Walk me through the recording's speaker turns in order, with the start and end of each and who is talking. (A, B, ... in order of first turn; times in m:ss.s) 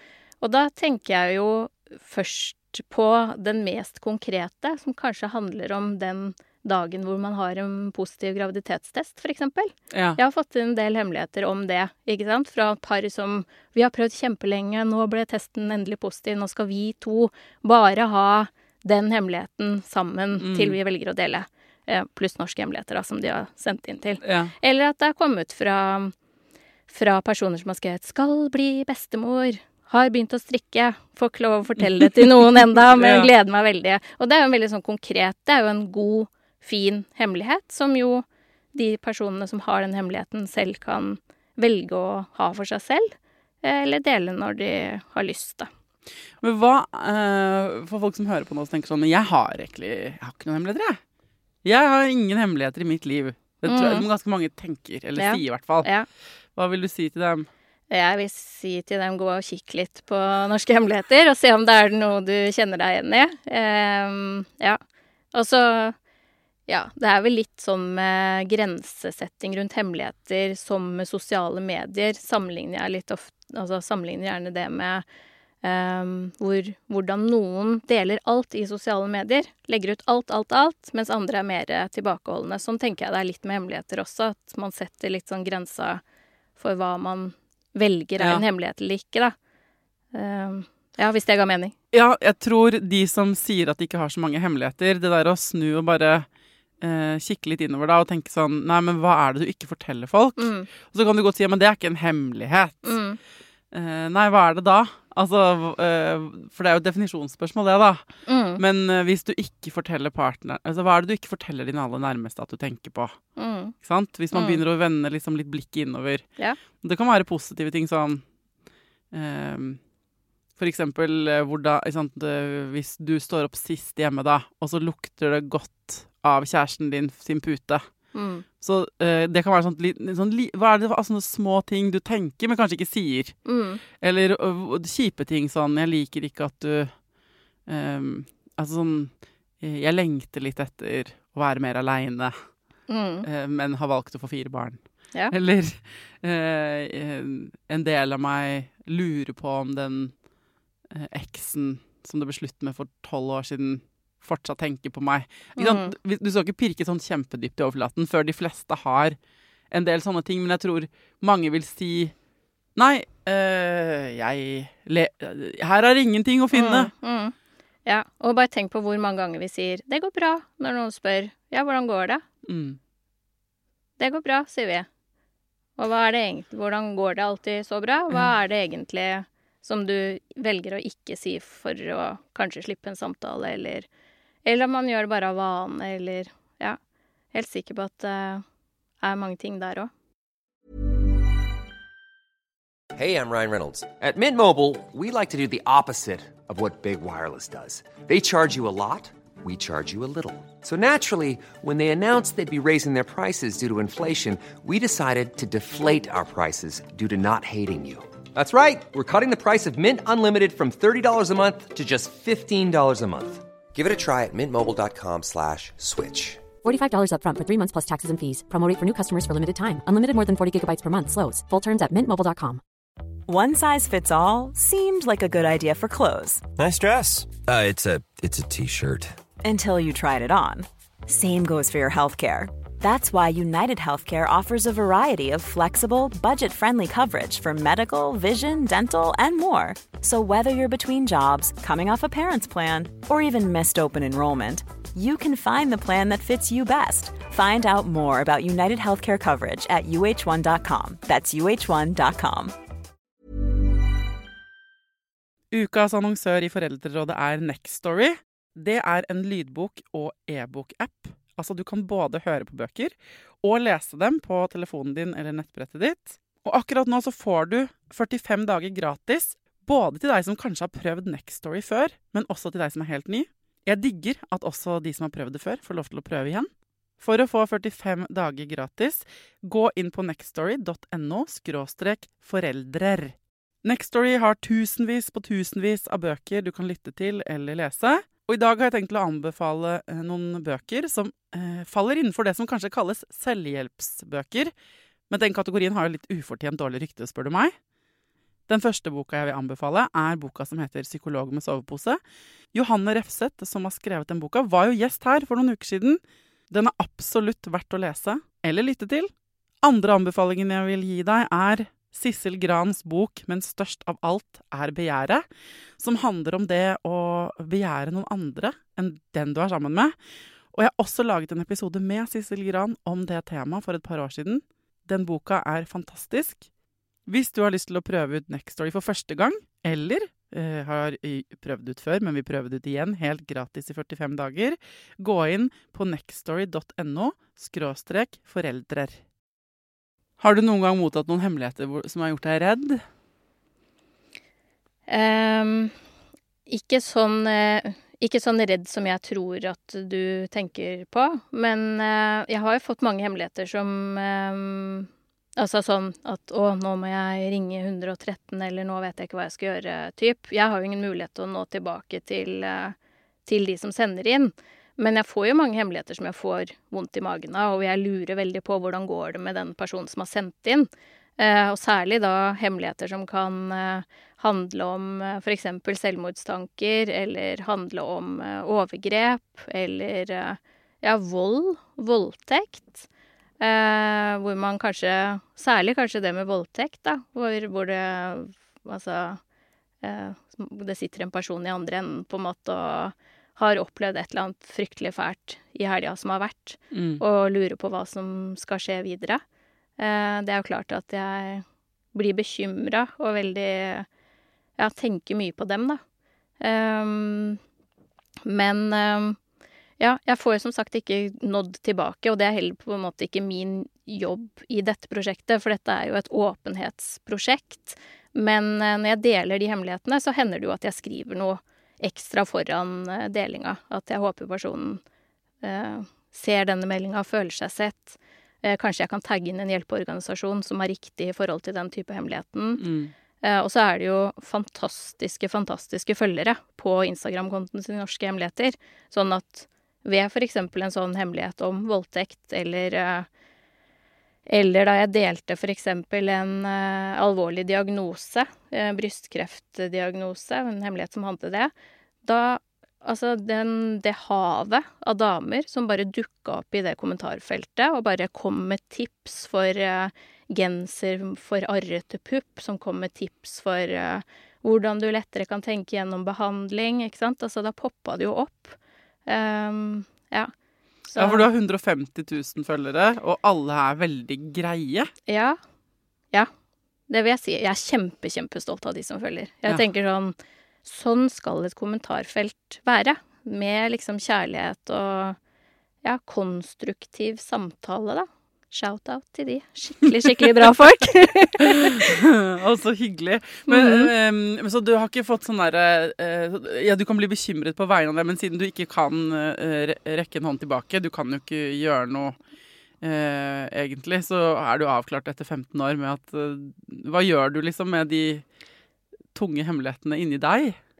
0:00.4-0:26.1 A
0:09.9-0:10.2 B
0:20.4-0:20.8 B
0:24.2-0:24.5 B
0:26.9-0:45.7 A
0:32.0-0:32.2 B
0:32.8-0:33.3 B
0:46.4-0:51.0 B
0:51.6-0:55.9 B
0:53.6-0:54.0 A
0:55.2-0:56.1 A
0:56.6-0:57.5 B
0:57.9-1:04.8 A
1:05.3-1:06.0 A
1:06.7-1:15.0 A
1:15.6-1:26.0 A
1:26.6-1:29.3 A
1:30.1-1:31.7 A
1:31.9-1:36.3 B
1:36.8-1:43.0 B
1:40.4-1:40.7 A
1:42.8-1:43.2 A
1:43.7-1:48.0 B
1:48.3-1:48.6 A
1:48.6-1:53.2 B
1:53.4-1:53.7 A
1:53.8-1:56.2 B
1:54.3-1:54.6 A
1:56.8-1:58.2 B
1:59.1-1:59.8 B
2:00.6-2:07.8 B
2:08.1-2:08.4 A
2:08.6-2:13.4 B
2:13.4-2:13.8 A
2:14.0-2:16.9 B
2:17.7-2:22.4 B
2:22.9-2:23.2 A
2:23.2-2:24.8 B
2:25.3-2:30.1 B
2:30.9-2:39.2 B
2:35.6-2:35.9 A
2:39.7-2:42.1 B
2:42.8-2:46.9 B
2:46.5-2:47.3 A
2:47.8-2:52.2 A
2:52.4-2:52.8 B
2:54.0-2:54.9 A
2:55.8-3:03.9 A
3:04.4-3:06.8 A
3:07.3-3:08.4 A
3:09.0-3:09.9 A
3:12.9-3:36.4 C
3:36.6-3:42.6 D
3:43.3-3:46.4 E
3:46.6-3:49.0 F
3:48.3-3:48.8 C
3:49.4-4:12.5 E
4:15.5-4:36.5 B
4:37.0-4:54.5 B
4:55.1-4:57.5 B
4:58.5-5:02.0 B
5:02.5-5:09.1 B
5:09.6-5:15.2 B
5:15.8-5:19.9 B
5:20.5-5:26.5 B
5:27.1-5:39.0 B
5:40.2-5:42.8 B
5:44.9-5:45.7 A
5:46.5-6:02.7 A
6:03.3-6:22.8 A
6:23.4-6:29.2 A
6:29.8-6:39.2 A
6:36.7-6:37.0 B
6:39.8-6:43.9 A
6:44.6-6:45.8 A
6:46.4-6:47.4 A
6:48.2-6:49.2 A
6:49.8-7:04.8 A
7:05.4-7:12.6 A
7:12.6-7:12.9 B
7:13.2-7:23.1 A
7:24.3-7:31.5 A
7:32.0-7:50.3 A
7:50.9-7:51.2 A
7:51.0-7:54.9 B
7:55.1-7:55.4 A
7:56.9-8:05.2 A
8:05.8-8:11.8 A
8:10.0-8:10.5 B
8:11.4-8:22.2 B
8:13.5-8:13.9 A
8:22.8-8:28.2 B
8:29.1-8:30.6 B